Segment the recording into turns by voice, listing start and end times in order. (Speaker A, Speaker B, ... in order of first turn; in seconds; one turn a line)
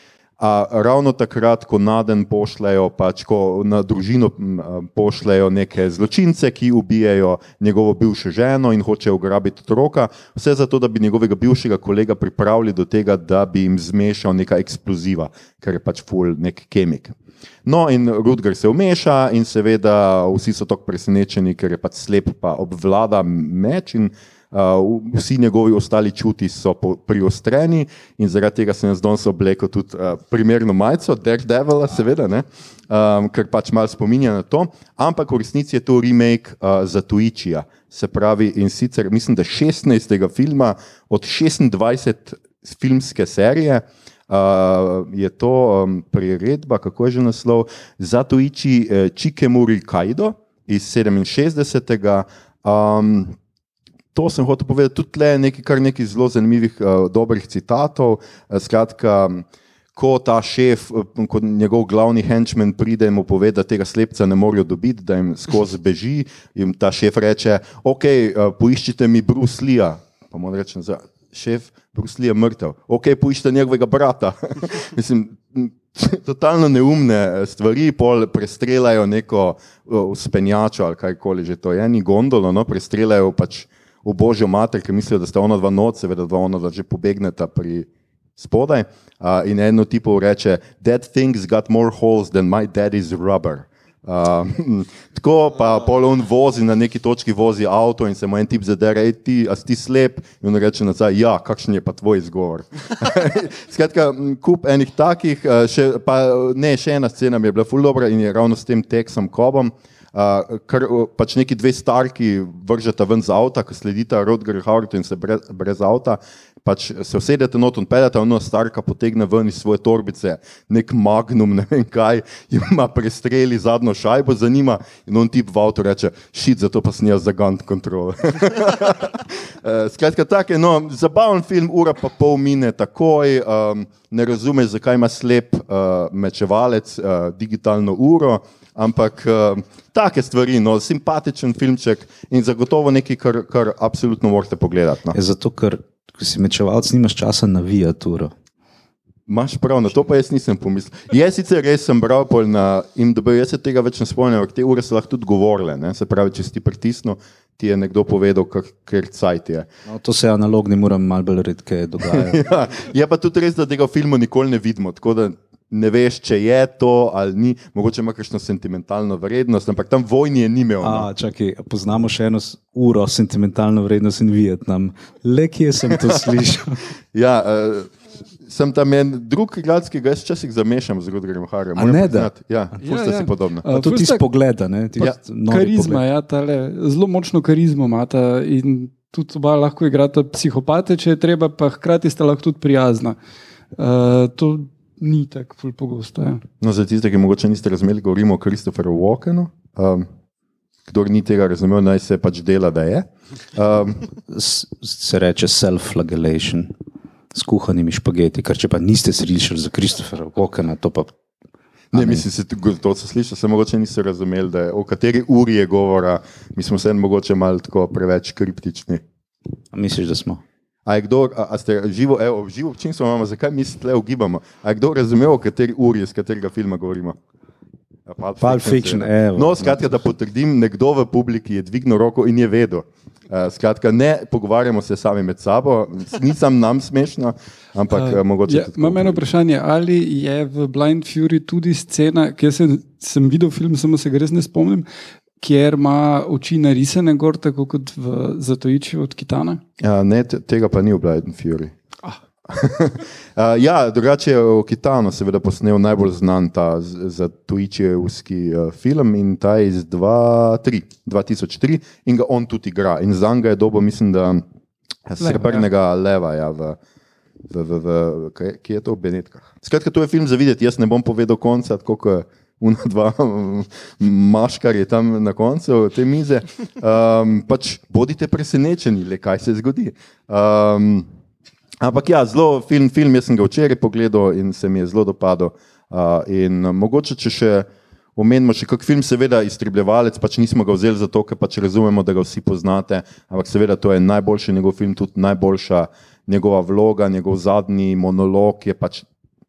Speaker A: 0.4-53.4
Speaker A: 54.1-145.2
Speaker B: 145.1-148.3
Speaker A: 149.3-159.7
Speaker B: 159.8-162.4
Speaker A: 162.1-171.1
Speaker B: 170.8-176.8
Speaker A: 177.1-183.7
Speaker B: 181.8-182.3
Speaker C: 182.8-184.2
Speaker B: 183.7-186.0
Speaker C: 185.5-193.2
Speaker C: 193.8-196.4
Speaker A: 196.6-200.1
Speaker A: 200.9-204.0
Speaker B: 204.3-206.7
Speaker B: 207.3-211.1
Speaker A: 211.9-219.0
Speaker B: 211.9-212.2
Speaker B: 219.7-220.4
Speaker A: 220.8-227.2
Speaker A: 228.1-239.2
Speaker B: 228.4-229.9
Speaker C: 237.9-244.8
Speaker C: 245.4-249.6
Speaker A: 249.8-251.7
Speaker A: 252.5-264.4
Speaker A: 265.1-266.8
Speaker C: 265.2-265.7
Speaker A: 267.5-281.1
Speaker A: 281.8-299.1